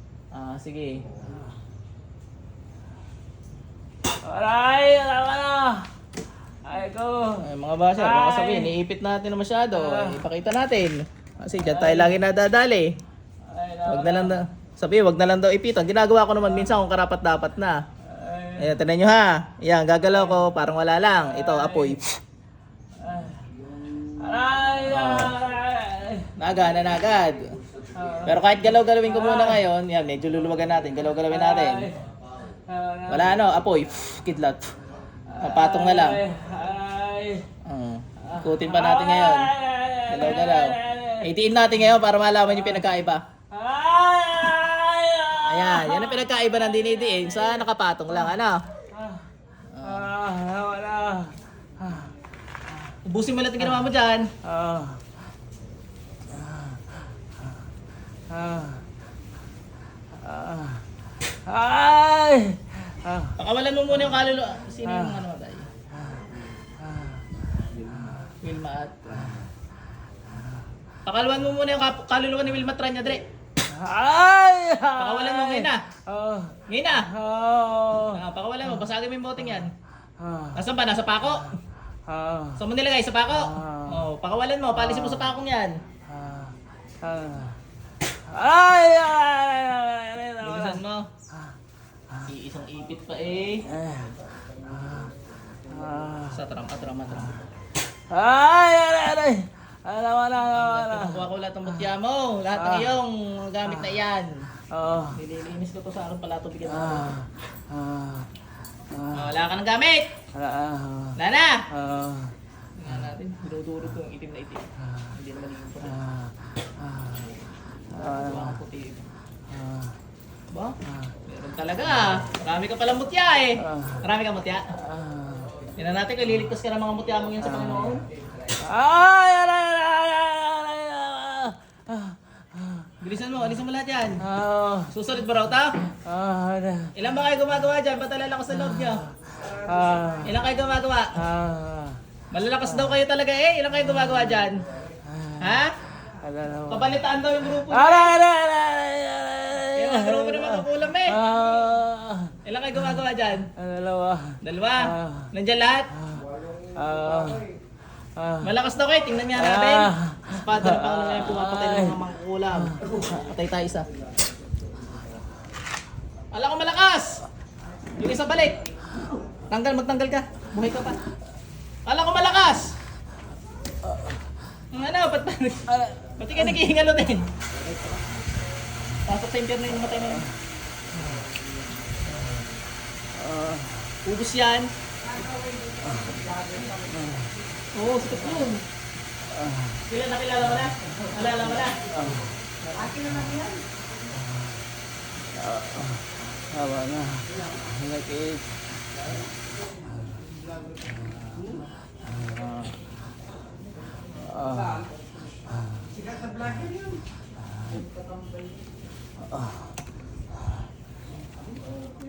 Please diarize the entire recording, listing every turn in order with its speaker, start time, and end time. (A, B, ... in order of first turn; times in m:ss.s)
0:00.3-0:01.0 A
0:04.2-0:05.9 B
0:06.6-0:07.4 B
0:07.4-0:12.9 A
0:08.0-0:08.7 B
0:09.7-0:10.2 B
0:11.6-0:12.2 B
0:13.4-0:14.4 B
0:13.8-0:17.8 A
0:16.4-0:16.8 B
0:18.1-0:18.8 B
0:18.6-0:22.1 A
0:20.0-0:20.5 B
0:21.2-0:22.0 B
0:23.0-0:23.4 B
0:24.0-0:26.3 B
0:24.9-0:25.3 A
0:26.4-0:27.6 A
0:28.0-0:29.6 B
0:28.2-0:31.9 A
0:31.3-0:32.0 B
0:32.7-0:33.4 B
0:33.1-0:34.7 A
0:35.3-0:37.4 B
0:35.4-0:36.2 A
0:37.6-0:39.5 A
0:38.2-0:41.3 B
0:40.1-0:43.2 A
0:42.5-0:42.8 B
0:43.5-0:47.6 B
0:45.5-0:48.6 A
0:48.9-0:49.2 B
0:49.8-0:50.1 A
0:49.8-0:52.1 B
0:53.0-0:54.3 A
0:53.6-0:53.9 B
0:54.4-0:55.0 B
0:56.4-0:56.8 B
0:58.3-0:58.8 B
1:00.2-1:00.8 B
1:01.5-1:03.3 B
1:03.4-1:05.7 A
1:06.9-1:07.2 B
1:07.9-1:08.2 B
1:08.4-1:09.3 A
1:11.1-1:13.2 A
1:13.7-1:18.2 B
1:15.0-1:15.8 A
1:16.7-1:17.1 A
1:18.1-1:19.7 A
1:20.2-1:20.6 B
1:20.6-1:21.5 A
1:22.1-1:22.6 B
1:22.6-1:25.8 A
1:23.3-1:24.0 B
1:24.8-1:25.4 B
1:26.1-1:27.6 B
1:28.3-1:30.8 B
1:30.4-1:31.1 A
1:32.3-1:33.6 A
1:33.7-1:34.1 B
1:34.7-1:35.1 B
1:35.7-1:36.4 B
1:36.3-1:37.4 A
1:38.1-1:41.9 B
1:40.5-1:44.3 A
1:42.6-1:42.9 B
1:44.7-1:45.2 B
1:45.2-1:47.1 A
1:46.7-1:48.3 B
1:48.9-1:49.3 B
1:49.1-1:50.1 A
1:50.4-1:51.2 B
1:51.2-1:51.6 A
1:51.7-1:52.3 B
1:52.8-1:56.0 A
1:55.8-1:57.3 B
1:57.9-1:58.6 B
1:57.9-1:59.1 A
1:59.5-1:59.9 B
2:00.5-2:04.6 A
2:03.6-2:04.0 B
2:04.8-2:05.5 B
2:05.8-2:08.0 A
2:07.4-2:08.0 B
2:08.6-2:12.9 B
2:13.0-2:14.2 A
2:14.2-2:14.9 B
2:14.9-2:15.7 A
2:16.0-2:16.9 B
2:17.0-2:19.0 A
2:18.5-2:20.4 B
2:19.3-2:20.4 C
2:20.2-2:21.2 A
2:21.2-2:22.0 B
2:22.3-2:24.6 A
2:22.7-2:23.0 B
2:24.0-2:24.3 B
2:25.1-2:25.5 B
2:25.4-2:25.8 A
2:26.2-2:27.0 B
2:26.7-2:28.2 A
2:27.5-2:32.3 B
2:29.8-2:31.2 A
2:32.4-2:33.5 A
2:33.6-2:35.3 B
2:34.4-2:35.9 A
2:36.8-2:37.4 B
2:38.2-2:38.5 B
2:38.4-2:43.9 A
2:39.4-2:42.0 B
2:46.3-2:47.2 A
2:48.0-2:48.6 A
2:49.5-2:51.0 A
2:51.9-2:52.7 A
2:54.7-2:55.6 A
2:55.7-2:56.6 B
2:56.2-2:57.3 A
2:59.1-3:00.2 A
3:03.2-3:03.9 B
3:04.1-3:04.7 A
3:05.0-3:07.2 C
3:06.9-3:07.3 B
3:07.8-3:08.6 A
3:09.4-3:09.8 B
3:09.9-3:11.8 A
3:11.9-3:12.3 B
3:12.8-3:13.6 C
3:15.4-3:18.5 B
3:22.1-3:22.7 B
3:24.3-3:24.9 B
3:26.0-3:27.0 C